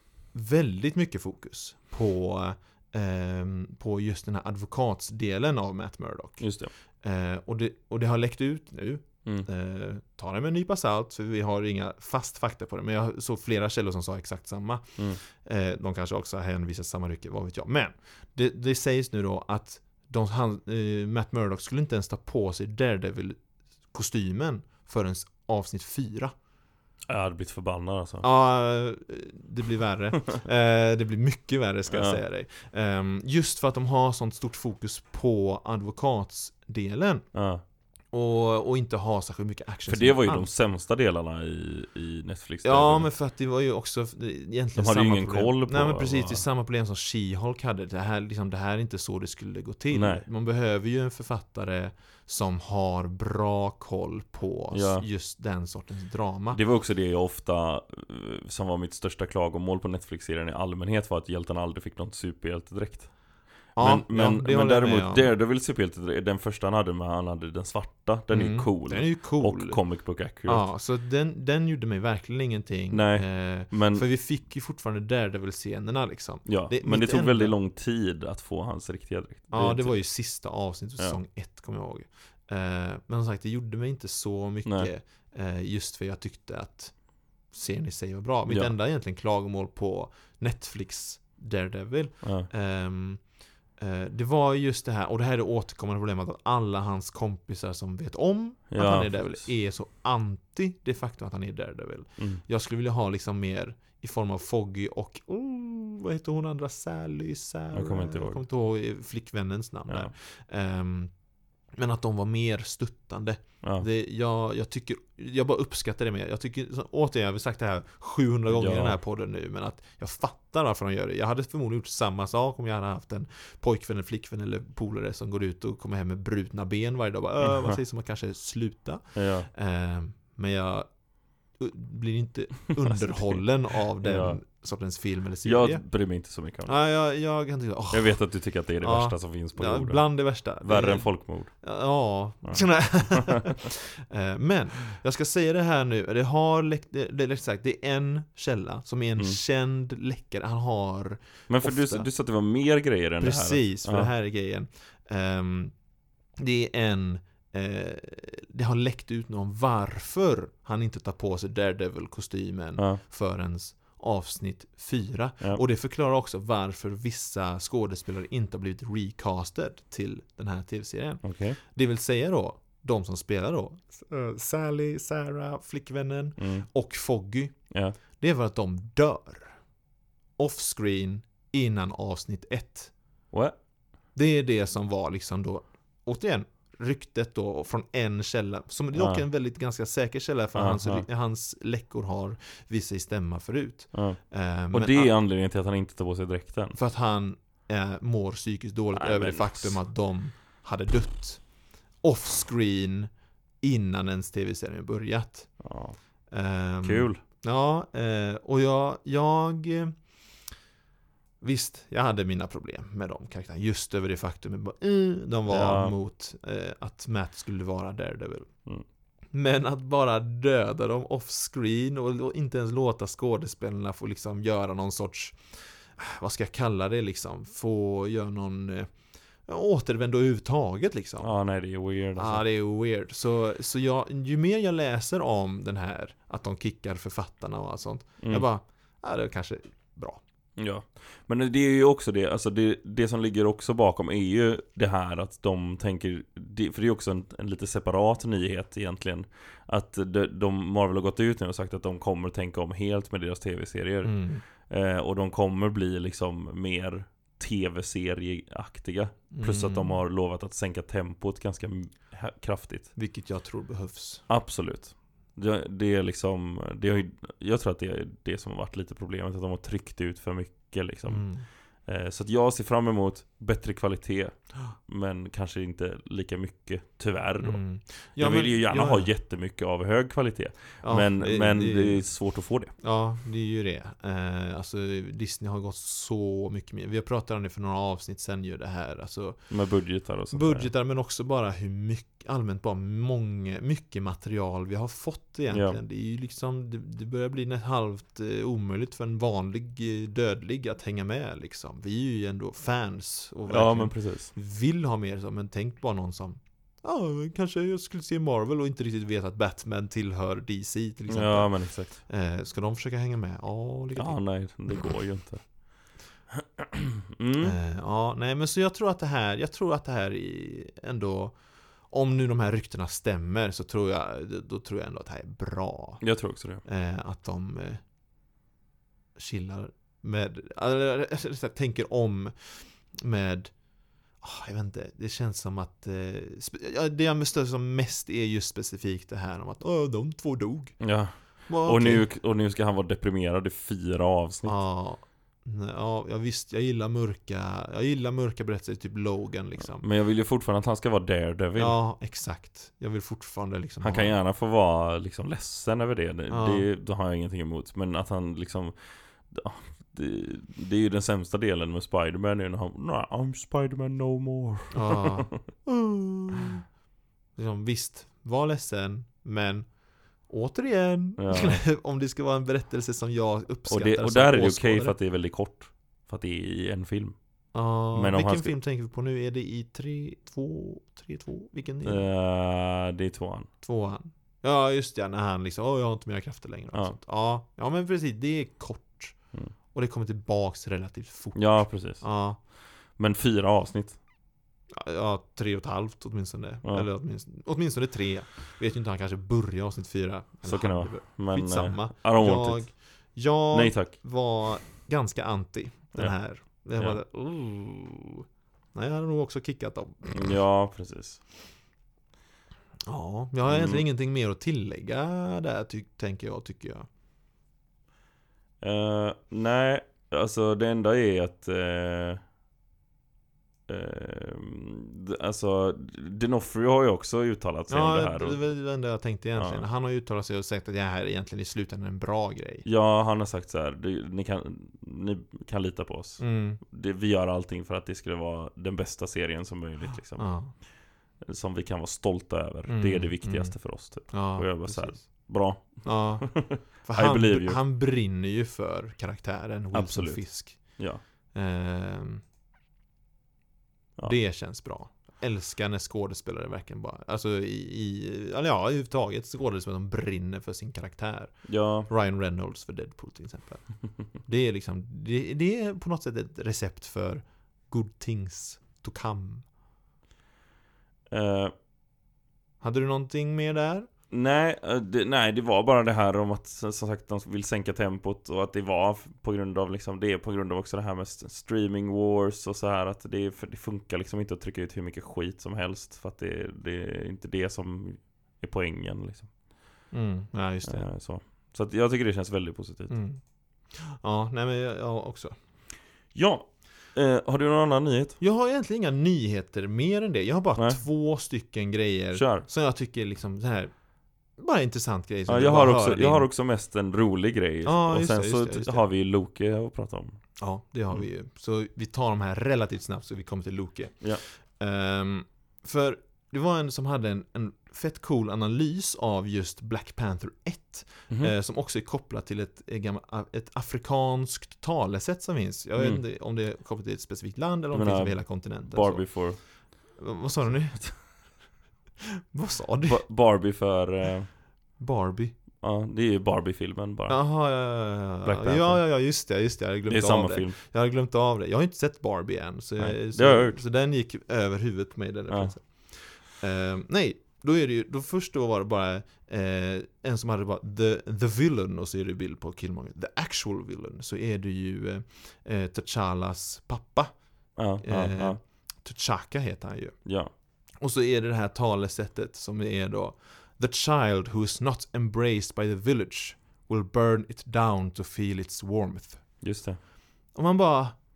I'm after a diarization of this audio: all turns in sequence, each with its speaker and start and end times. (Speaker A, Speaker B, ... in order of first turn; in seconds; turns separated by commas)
Speaker A: 0.3-6.4, Speaker B: 6.4-6.7, Speaker A: 7.0-23.4, Speaker A: 23.9-26.3, Speaker B: 27.1-28.3, Speaker A: 28.2-37.3, Speaker B: 31.9-32.2, Speaker B: 37.3-37.6, Speaker A: 38.1-40.5, Speaker B: 39.9-43.1, Speaker A: 42.6-56.6, Speaker B: 44.8-46.4, Speaker B: 49.9-50.2, Speaker B: 54.7-55.0, Speaker B: 56.5-63.1, Speaker A: 63.8-65.3, Speaker B: 63.8-70.7, Speaker A: 68.3-69.8, Speaker A: 70.5-77.5, Speaker B: 72.9-74.0, Speaker B: 76.5-80.0, Speaker A: 79.5-86.9, Speaker B: 84.6-84.9, Speaker A: 87.5-93.2, Speaker B: 88.5-88.7, Speaker B: 92.2-92.5, Speaker A: 93.8-111.1, Speaker B: 98.7-99.4, Speaker B: 102.2-102.4, Speaker B: 107.7-108.4, Speaker A: 111.8-130.9, Speaker B: 118.5-119.0, Speaker B: 127.5-127.7, Speaker B: 129.1-129.5, Speaker A: 131.6-135.8, Speaker B: 132.9-133.4, Speaker B: 134.0-134.4, Speaker B: 135.4-136.7, Speaker A: 136.7-138.2, Speaker B: 137.9-140.0, Speaker A: 138.8-152.1, Speaker B: 140.6-141.5, Speaker B: 142.4-143.7, Speaker B: 151.5-154.1, Speaker A: 153.2-155.7, Speaker A: 156.4-177.5, Speaker B: 171.2-171.6, Speaker B: 176.4-176.7, Speaker B: 177.7-178.0, Speaker A: 178.2-179.5, Speaker A: 180.4-182.9, Speaker A: 184.1-195.1, Speaker B: 188.9-189.2, Speaker B: 190.5-191.0, Speaker B: 194.7-196.8, Speaker A: 196.8-201.4, Speaker B: 198.9-199.8, Speaker A: 202.0-203.1, Speaker A: 203.6-205.5, Speaker B: 205.6-206.0, Speaker A: 206.3-209.9, Speaker B: 206.8-207.2, Speaker A: 211.4-218.5, Speaker B: 215.5-215.9, Speaker A: 219.3-225.4, Speaker A: 226.0-228.9, Speaker A: 229.5-231.3, Speaker B: 231.2-232.4, Speaker A: 232.2-240.2, Speaker B: 238.2-238.4, Speaker B: 240.6-254.1, Speaker A: 254.0-254.4, Speaker B: 254.7-262.9, Speaker A: 259.3-260.0, Speaker A: 262.9-264.2, Speaker B: 264.3-271.3, Speaker A: 271.1-271.4, Speaker B: 271.9-277.6, Speaker A: 277.4-279.1, Speaker B: 278.2-282.7, Speaker A: 280.8-282.0, Speaker A: 282.8-289.4, Speaker B: 289.5-290.7, Speaker A: 290.3-314.2, Speaker B: 295.5-295.8, Speaker B: 303.5-304.3, Speaker B: 311.1-311.9, Speaker B: 313.9-315.4, Speaker A: 314.7-314.9, Speaker B: 316.3-317.5, Speaker A: 317.4-321.4, Speaker A: 321.9-326.0, Speaker B: 326.0-326.6, Speaker A: 326.6-327.8, Speaker A: 329.1-333.5, Speaker A: 334.2-340.8, Speaker B: 340.8-344.6, Speaker A: 341.5-342.1, Speaker A: 344.4-349.8, Speaker B: 349.8-351.8, Speaker A: 351.6-354.1, Speaker B: 353.8-358.7, Speaker A: 356.3-356.7, Speaker B: 359.3-365.4, Speaker A: 364.7-366.6, Speaker A: 367.4-369.7, Speaker A: 370.3-374.9, Speaker B: 371.2-371.6, Speaker B: 373.7-377.1, Speaker A: 377.5-382.1, Speaker B: 377.9-378.5, Speaker B: 381.8-383.5, Speaker A: 383.6-389.1, Speaker A: 389.7-392.4, Speaker B: 391.3-392.0, Speaker B: 393.0-394.0, Speaker A: 394.7-410.4, Speaker B: 400.4-402.6, Speaker B: 403.5-403.9, Speaker B: 410.1-411.2, Speaker A: 412.9-416.9, Speaker B: 413.5-413.8, Speaker B: 418.6-422.2, Speaker B: 423.7-428.4, Speaker A: 427.7-432.6, Speaker B: 429.4-429.6, Speaker B: 432.6-440.3, Speaker A: 436.2-436.6, Speaker A: 440.2-440.5, Speaker B: 441.3-447.6, Speaker A: 442.7-445.0, Speaker A: 445.8-450.6, Speaker B: 449.7-450.2, Speaker A: 451.3-452.2, Speaker A: 454.0-461.3, Speaker B: 461.5-461.9, Speaker A: 461.9-463.6, Speaker A: 464.2-469.4, Speaker B: 471.1-471.5, Speaker A: 472.6-473.9, Speaker B: 474.1-489.3, Speaker A: 489.9-490.9, Speaker B: 490.6-492.9, Speaker A: 492.9-493.2, Speaker A: 493.7-495.3, Speaker B: 496.1-498.2, Speaker A: 498.2-503.7, Speaker B: 502.1-502.5, Speaker A: 504.4-506.3, Speaker B: 505.3-510.2, Speaker A: 507.6-508.8, Speaker A: 510.4-514.0, Speaker A: 514.6-529.0, Speaker B: 525.8-526.0, Speaker B: 527.7-528.2, Speaker B: 528.7-529.4, Speaker A: 530.0-530.8, Speaker A: 532.0-533.0, Speaker B: 532.8-534.3, Speaker A: 534.8-535.3, Speaker B: 535.6-537.2, Speaker A: 537.1-557.1, Speaker B: 538.2-538.8, Speaker B: 539.9-540.6, Speaker B: 542.8-543.6, Speaker B: 557.6-558.4, Speaker A: 557.8-560.0, Speaker B: 560.0-560.3, Speaker A: 560.8-569.2, Speaker B: 569.4-569.8, Speaker A: 570.3-571.0